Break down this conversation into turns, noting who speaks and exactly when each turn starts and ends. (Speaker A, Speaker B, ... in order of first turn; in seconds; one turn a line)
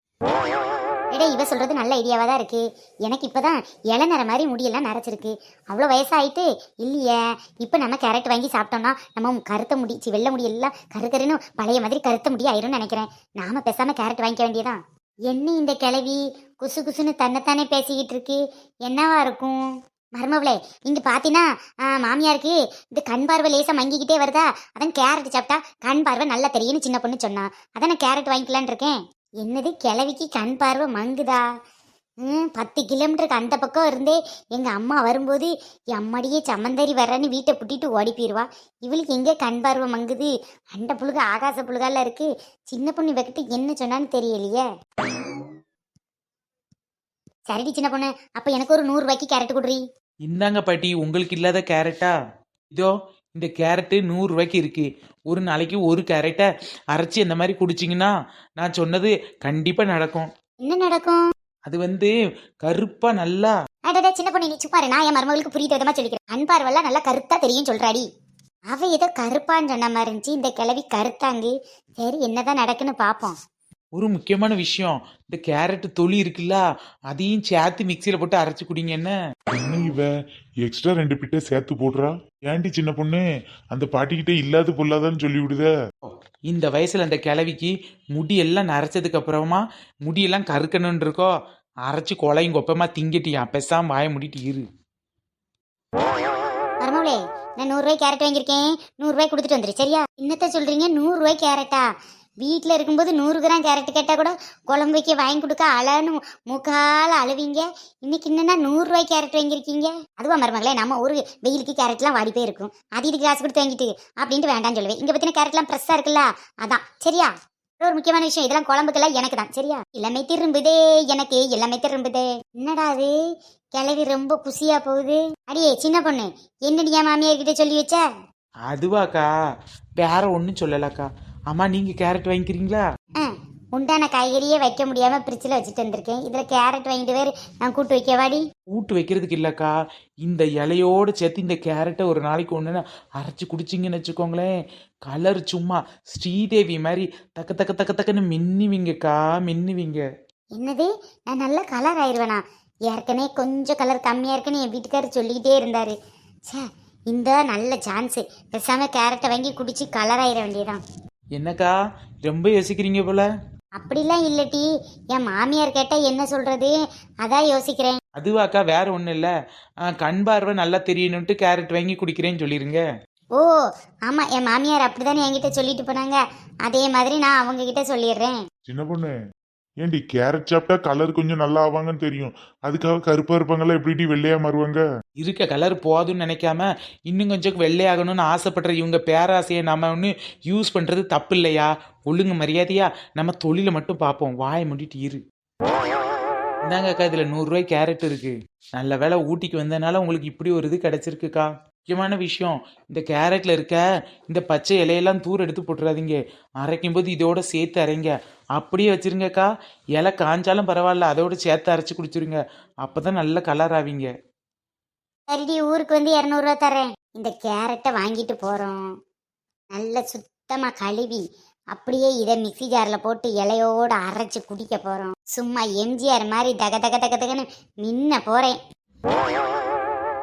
Speaker A: 1.1-19.6
Speaker A: 20.1-31.5
Speaker A: 32.2-44.6
Speaker A: 47.5-49.8
Speaker B: 50.2-52.1
Speaker B: 52.7-60.3
Speaker A: 60.6-61.2
Speaker B: 61.7-63.5
Speaker A: 63.9-68.0
Speaker A: 68.7-73.3
Speaker B: 73.9-79.1
Speaker C: 79.5-80.1
Speaker C: 80.6-85.7
Speaker B: 86.5-91.3
Speaker B: 91.9-94.7
Speaker A: 96.8-101.9
Speaker A: 102.4-123.2
Speaker A: 123.8-128.0
Speaker B: 128.7-129.3
Speaker B: 130.0-132.8
Speaker A: 133.2-138.4
Speaker B: 138.7-139.7
Speaker B: 140.2-144.5
Speaker B: 145.1-150.0
Speaker A: 150.6-155.9
Speaker A: 156.5-160.8
Speaker B: 161.3-161.7
Speaker B: 162.2-163.3
Speaker A: 163.8-168.0
Speaker B: 168.2-169.3
Speaker B: 169.8-172.8
Speaker A: 173.3-178.4
Speaker C: 178.7-179.1
Speaker C: 179.8-184.8
Speaker B: 185.2-195.2
Speaker B: 196.6-214.1
Speaker A: 215.3-218.8
Speaker A: 219.7-228.6